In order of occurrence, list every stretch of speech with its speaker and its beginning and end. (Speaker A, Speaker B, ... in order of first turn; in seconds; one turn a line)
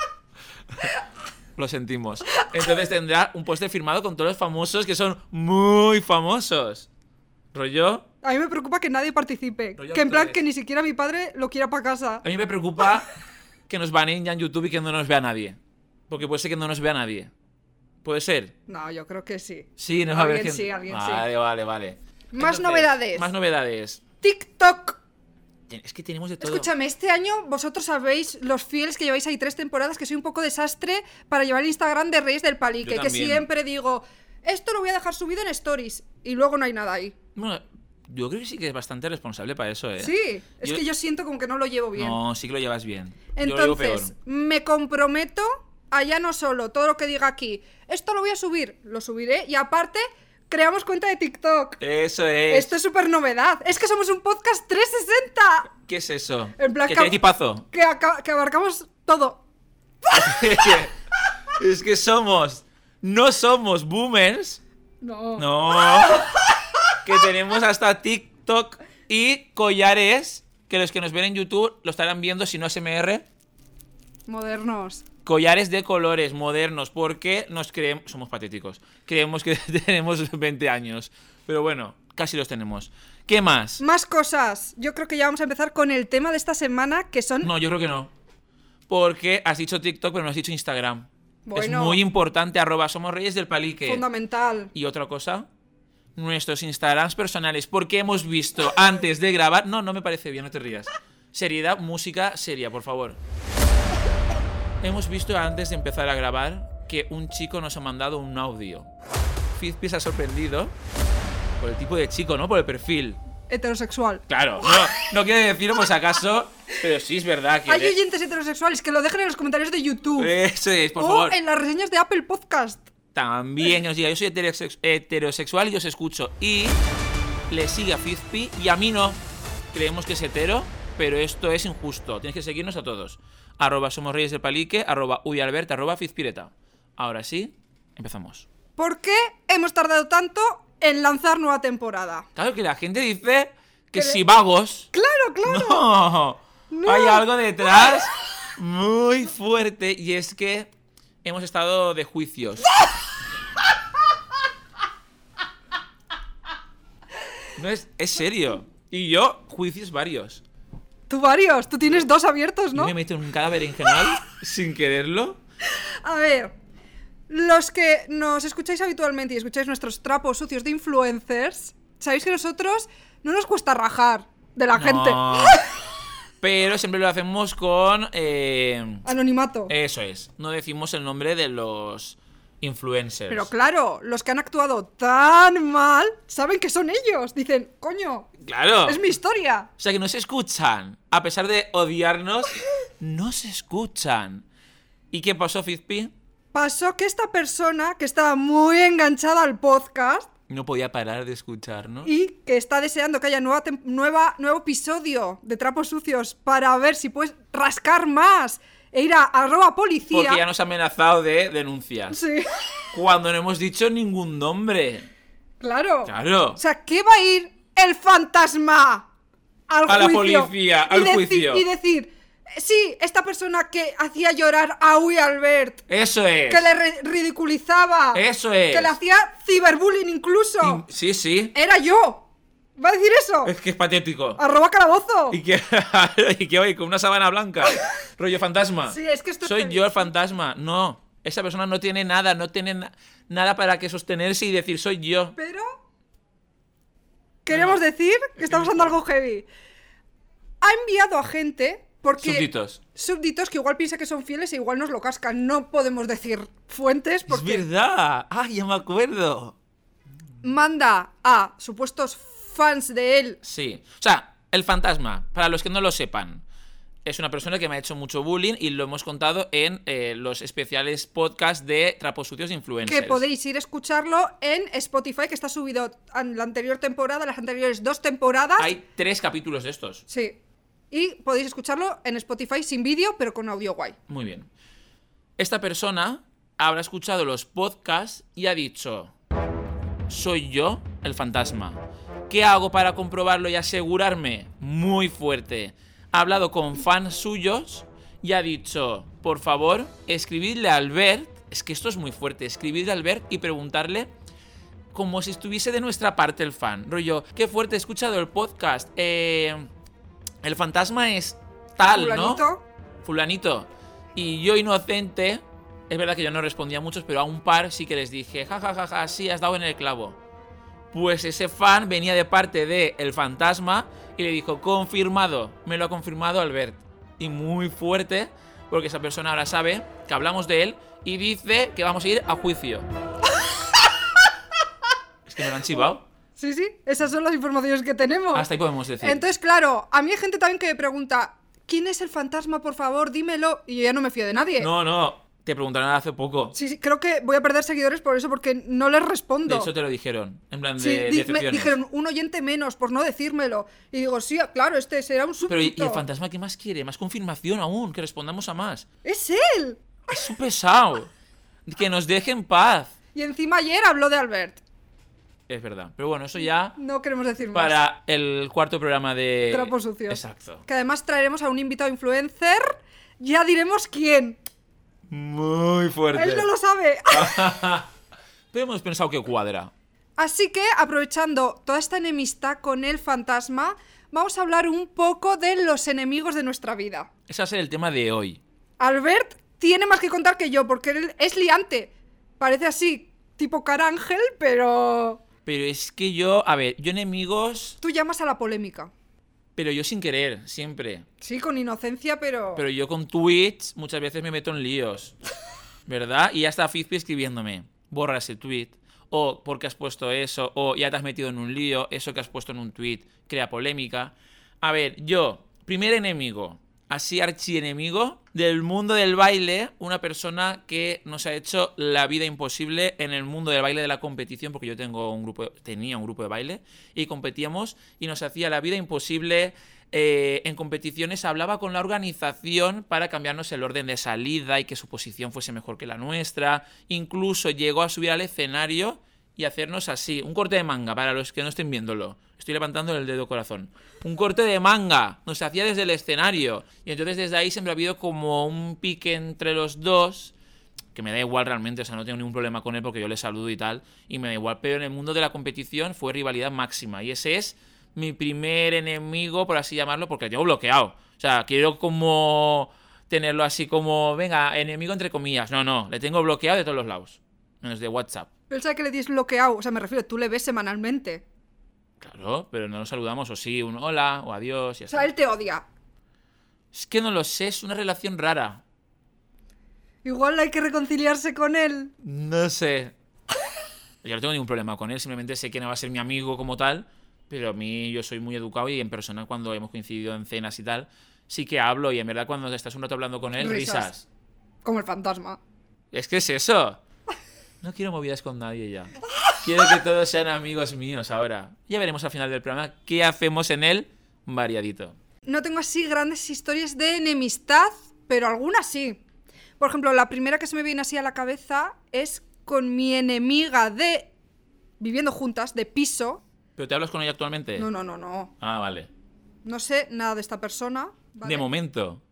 Speaker A: 1.6-6.9
Speaker A: 7.5-8.1
Speaker B: 8.2-12.2
Speaker A: 9.8-10.4
Speaker A: 12.2-13.1
Speaker A: 13.7-17.3
Speaker A: 18.0-18.5
Speaker B: 18.7-21.2
Speaker A: 19.8-24.0
Speaker B: 22.3-23.3
Speaker B: 24.2-25.0
Speaker A: 25.7-26.7
Speaker B: 26.4-37.1
Speaker A: 32.8-33.5
Speaker A: 37.3-40.8
Speaker B: 40.0-42.2
Speaker A: 42.0-44.1
Speaker B: 43.3-51.8
Speaker A: 51.8-52.7
Speaker B: 52.5-55.7
Speaker A: 55.8-57.6
Speaker B: 56.6-57.2
Speaker B: 57.7-59.4
Speaker A: 60.1-60.9
Speaker A: 61.5-64.6
Speaker B: 65.0-65.5
Speaker A: 65.4-66.3
Speaker A: 67.0-73.2
Speaker B: 74.3-75.0
Speaker A: 75.2-83.8
Speaker B: 83.8-87.5
Speaker A: 87.4-88.1
Speaker A: 88.9-94.0
Speaker B: 91.5-92.0
Speaker B: 93.8-94.7
Speaker A: 94.7-95.5
Speaker A: 96.2-103.2
Speaker A: 104.8-108.9
Speaker A: 109.5-110.7
Speaker A: 111.6-113.2
Speaker B: 113.5-114.2
Speaker A: 114.3-118.0
Speaker B: 117.7-120.3
Speaker A: 120.2-121.4
Speaker B: 121.0-122.8
Speaker A: 123.1-126.8
Speaker A: 127.5-129.2
Speaker A: 129.7-138.4
Speaker B: 138.8-142.2
Speaker A: 142.3-144.9
Speaker B: 143.9-144.2
Speaker B: 144.9-145.8
Speaker A: 145.4-150.7
Speaker B: 146.7-147.2
Speaker A: 151.2-152.7
Speaker A: 157.6-160.4
Speaker B: 161.1-162.9
Speaker A: 162.7-165.4
Speaker B: 165.8-166.5
Speaker B: 167.3-175.6
Speaker A: 174.7-175.6
Speaker A: 176.4-179.0
Speaker B: 179.0-179.7
Speaker A: 179.7-183.5
Speaker B: 183.3-188.3
Speaker A: 188.4-189.0
Speaker B: 188.8-189.7
Speaker A: 189.8-194.4
Speaker A: 195.1-196.1
Speaker B: 196.5-200.3
Speaker A: 200.5-202.1
Speaker B: 202.0-210.4
Speaker A: 210.1-212.2
Speaker B: 212.1-212.5
Speaker A: 212.9-215.1
Speaker B: 215.6-219.1
Speaker A: 216.0-216.6
Speaker B: 219.7-225.8
Speaker A: 219.8-221.7
Speaker A: 225.9-226.7
Speaker B: 226.5-230.8
Speaker A: 228.1-228.9
Speaker A: 230.6-231.5
Speaker B: 231.5-232.2
Speaker B: 232.8-233.5
Speaker A: 233.4-234.4
Speaker B: 234.4-235.4
Speaker A: 235.3-245.3
Speaker B: 238.9-240.1
Speaker B: 245.3-245.7
Speaker B: 247.4-249.5
Speaker A: 247.5-247.8
Speaker A: 248.4-249.0
Speaker B: 250.6-257.6
Speaker A: 252.2-252.8
Speaker A: 257.3-259.5
Speaker B: 260.4-263.4
Speaker A: 263.4-266.4
Speaker A: 267.0-273.2
Speaker B: 272.9-278.7
Speaker A: 278.6-280.0
Speaker B: 280.1-280.4
Speaker B: 280.9-284.0
Speaker A: 284.1-284.5
Speaker A: 285.4-289.1
Speaker A: 290.1-304.1
Speaker A: 304.9-309.7
Speaker A: 310.4-312.4
Speaker B: 311.9-312.6
Speaker A: 313.0-320.2
Speaker A: 320.9-332.9
Speaker A: 335.2-336.0
Speaker B: 336.4-338.5
Speaker A: 338.3-339.2
Speaker B: 339.0-344.7
Speaker A: 344.6-346.5
Speaker B: 346.5-349.7
Speaker A: 349.4-351.8
Speaker B: 350.8-356.0
Speaker A: 355.5-358.9
Speaker B: 359.0-359.8
Speaker A: 360.1-361.1
Speaker A: 361.6-362.9
Speaker B: 363.1-364.6
Speaker A: 365.5-366.8
Speaker B: 366.8-367.8
Speaker A: 367.5-370.6
Speaker B: 369.5-374.4
Speaker A: 375.1-376.5
Speaker B: 376.1-377.6
Speaker A: 377.1-377.9
Speaker A: 378.5-379.7
Speaker B: 380.2-387.1
Speaker A: 387.3-388.4
Speaker B: 388.8-395.2
Speaker A: 395.4-397.8
Speaker B: 397.8-398.9
Speaker A: 399.6-401.1
Speaker B: 401.2-402.6
Speaker A: 402.6-405.1
Speaker A: 405.9-450.3
Speaker A: 450.9-468.3
Speaker B: 468.5-471.2
Speaker A: 472.0-475.1
Speaker B: 474.9-475.6
Speaker A: 476.7-478.6
Speaker B: 480.0-481.9
Speaker A: 482.0-482.9
Speaker A: 484.0-494.0
Speaker B: 493.4-493.9
Speaker B: 494.6-495.4
Speaker A: 495.9-496.8
Speaker A: 497.6-505.0
Speaker B: 505.3-509.0
Speaker B: 509.6-514.1
Speaker B: 514.8-516.2
Speaker A: 516.6-517.7
Speaker B: 517.6-518.3
Speaker A: 518.4-518.9
Speaker B: 519.4-521.5
Speaker A: 521.2-522.0